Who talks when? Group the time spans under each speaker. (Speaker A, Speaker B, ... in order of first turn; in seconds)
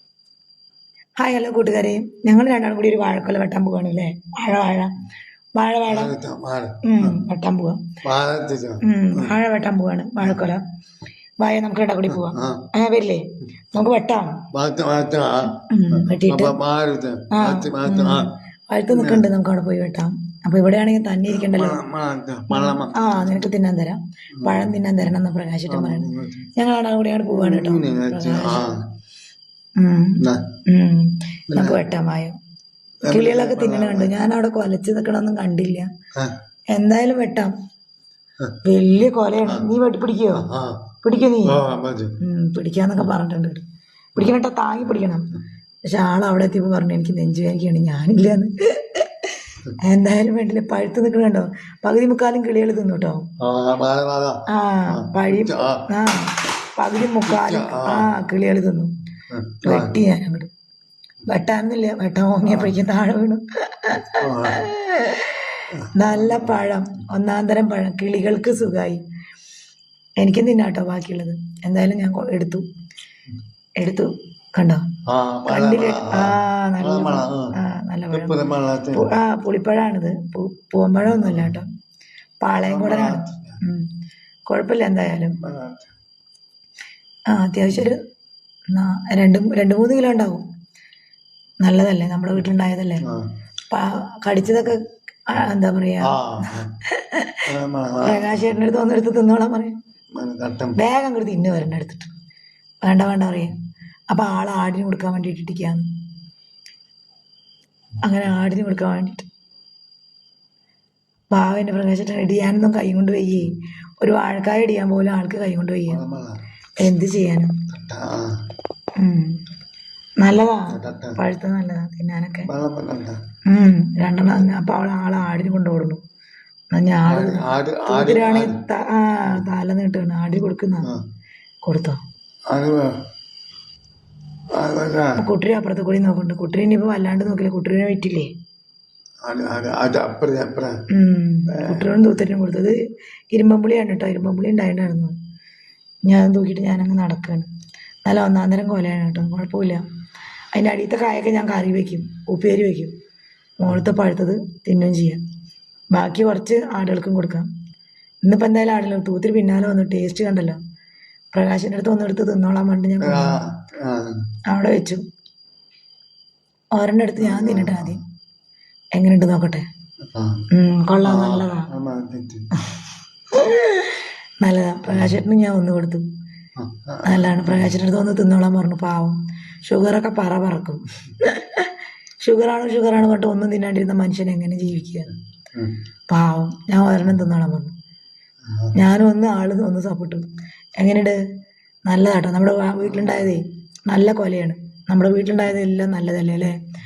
Speaker A: 1.2-5.0, 5.6-6.1, 6.8-7.9, 8.8-10.6, 11.4-14.4, 15.7-16.6, 17.3-21.8, 22.5-28.7, 29.8-32.4, 33.1-35.9, 36.7-37.5, 38.6-40.5, 41.0-41.6, 42.2-45.3, 45.9-53.2, 54.5-58.9, 59.6-60.5, 61.3-69.0, 70.2-72.6, 73.8-74.9, 75.5-78.4, 78.9-81.7, 82.4-83.9, 84.5-85.4, 87.3-88.0, 88.7-90.4, 91.6-93.0, 93.7-97.5, 98.0-99.8, 100.8-102.1, 102.8-103.6, 104.1-105.9, 108.0-109.3, 111.3-116.0, 116.8-117.6, 119.0-119.4, 120.2-122.5, 123.5-126.0, 126.7-130.9, 131.7-132.0, 135.2-138.3, 140.9-142.8, 143.3-145.2, 146.1-147.5, 148.1-149.8, 150.5-152.9, 153.6-155.2, 155.9-157.5, 158.2-160.6, 161.3-163.4, 164.5-165.0, 166.8-168.0, 168.9-169.7, 170.5-171.7, 173.3-176.1, 177.1-185.1, 186.1-187.7, 188.8-190.2, 190.8-191.2, 191.9-196.6
Speaker B: 5.9-7.2, 8.0-9.3, 12.1-12.7, 14.5-18.3, 18.9-19.3, 21.3-23.4, 24.4-24.7, 25.7-26.5, 27.3-28.9, 30.2-30.5, 31.5-31.8, 33.0-34.1, 40.4-42.2, 53.4-55.9, 57.0-58.1, 59.3-60.0, 62.5-62.7, 64.2-64.7, 65.7-66.5, 75.1-77.5, 78.1-79.1, 81.1-81.5, 82.6-83.6, 85.4-85.9, 93.0-93.3, 96.0-96.7, 97.5-98.5, 100.2-100.8, 115.9-116.4, 117.7-118.4, 120.7-121.2, 122.5-123.2, 127.1-128.6, 132.5-133.0, 134.5-135.2, 139.2-140.8, 141.5-141.9, 163.0-164.2, 167.2-168.0, 170.1-170.4, 171.0-172.5, 174.9-175.2, 176.6-177.7, 188.5-188.8